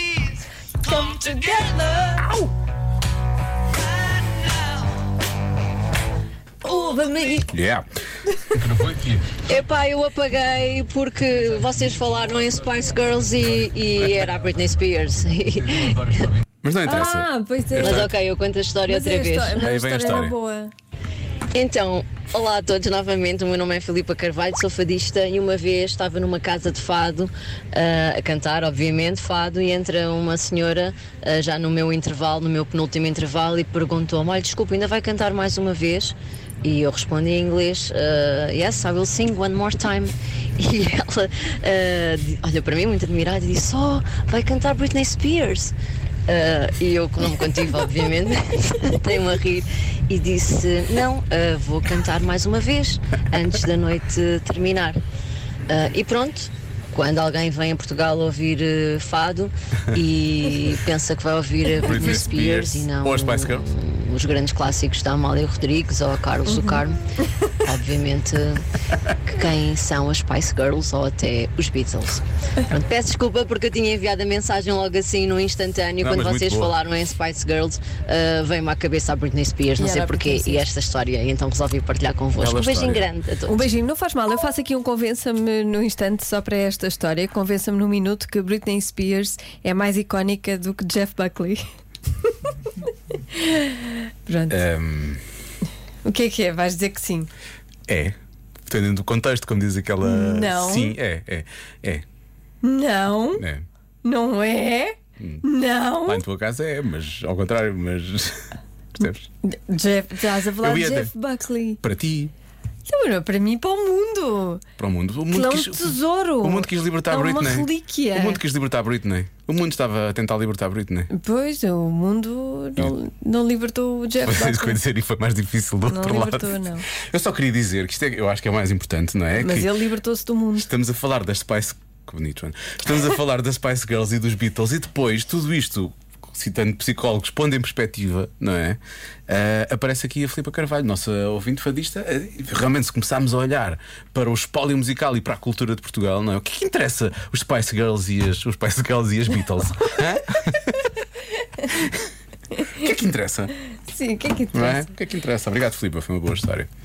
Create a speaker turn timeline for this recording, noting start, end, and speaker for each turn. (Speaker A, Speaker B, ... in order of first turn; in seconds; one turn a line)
Speaker A: 0.8-2.3
Speaker A: 6.6-7.5
Speaker B: 7.5-7.8
Speaker B: 8.5-9.4
Speaker C: 9.4-16.2
Speaker B: 16.5-18.1
Speaker A: 16.9-18.1
Speaker C: 17.8-19.6
Speaker A: 18.9-20.7
Speaker B: 19.6-20.3
Speaker C: 21.5-45.7
Speaker C: 46.3-55.0
Speaker C: 55.7-67.0
Speaker B: 61.8-63.6
Speaker A: 66.5-66.8
Speaker C: 67.6-68.6
Speaker C: 69.2-83.6
Speaker B: 76.0-76.7
Speaker A: 79.8-80.6
Speaker B: 82.4-83.0
Speaker A: 83.5-91.6
Speaker A: 92.2-92.5
Speaker A: 93.3-94.6
Speaker B: 94.5-95.2
Speaker A: 96.0-97.3
Speaker B: 97.9-98.1
Speaker B: 98.7-102.0
Speaker A: 100.0-101.0
Speaker A: 102.6-103.4
Speaker B: 103.3-103.6
Speaker A: 104.0-106.2
Speaker B: 106.0-108.3
Speaker B: 109.0-109.3
Speaker A: 109.4-111.8
Speaker B: 110.6-111.1
Speaker B: 111.8-112.3
Speaker A: 112.8-114.6
Speaker B: 114.8-121.1
Speaker A: 115.3-118.4
Speaker A: 121.1-124.8
Speaker B: 124.2-129.7
Speaker A: 125.9-126.8
Speaker A: 129.3-130.7
Speaker B: 130.5-150.9
Speaker B: 151.7-152.0
Speaker B: 152.7-153.5
Speaker A: 153.9-154.9
Speaker B: 154.5-156.7